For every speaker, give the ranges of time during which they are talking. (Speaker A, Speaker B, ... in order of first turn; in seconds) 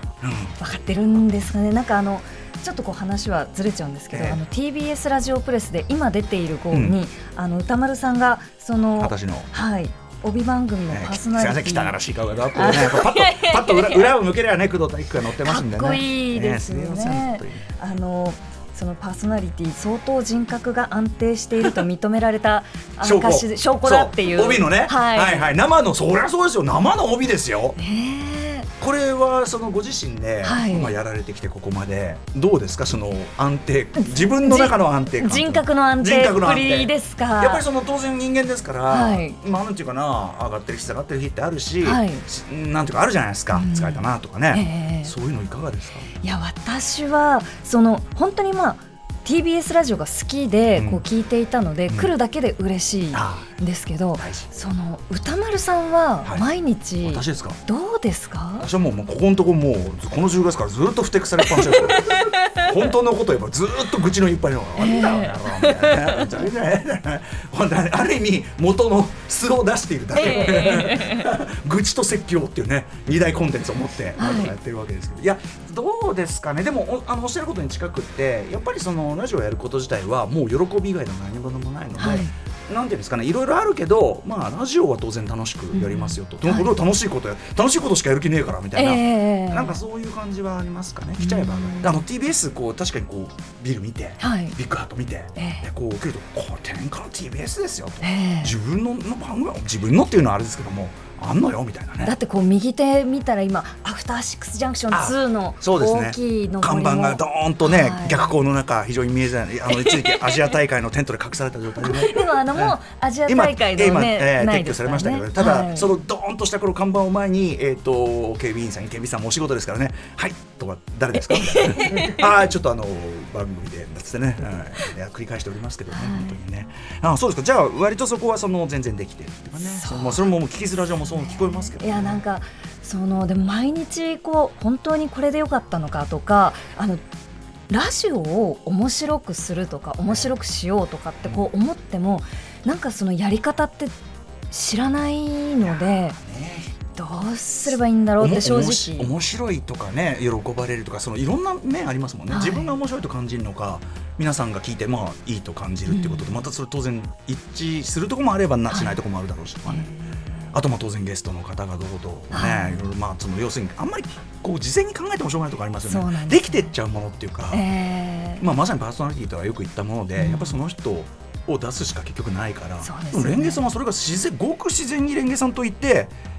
Speaker A: 0.2-0.6, 4.1-4.4, 6.7-7.0, 9.0-9.5, 10.9-17.7, 23.0-27.8, 28.8-46.1, 50.7-51.0, 53.1-53.5, 54.2-54.5, 57.0-57.6, 58.6-102.1, 104.9-132.2, 145.6-146.7, 148.2-159.9, 160.5-167.6, 168.4-176.1
Speaker B: 0.6-11.9, 12.5-14.2, 15.4-25.6, 27.8-28.7, 30.4-30.9, 34.0-37.6, 38.9-39.4, 41.8-42.2, 43.5-45.1, 46.2-58.7, 61.4-62.7, 64.8-66.3, 70.1-71.3, 74.2-74.5, 82.0-82.3, 85.7-86.7, 88.7-89.8, 91.2-92.0, 94.2-94.5, 95.3-95.6, 98.0-98.5, 102.0-108.3, 109.7-110.5, 111.8-115.9, 121.2-122.3, 125.9-126.4, 129.5-130.3, 131.2-137.0, 137.7-144.0, 144.5-146.2, 146.9-149.1, 152.3-152.8, 155.9-156.3, 158.7-158.9, 159.7-160.5, 162.3-162.8, 165.8-166.7, 167.5-168.4, 170.2-170.6, 172.8-173.6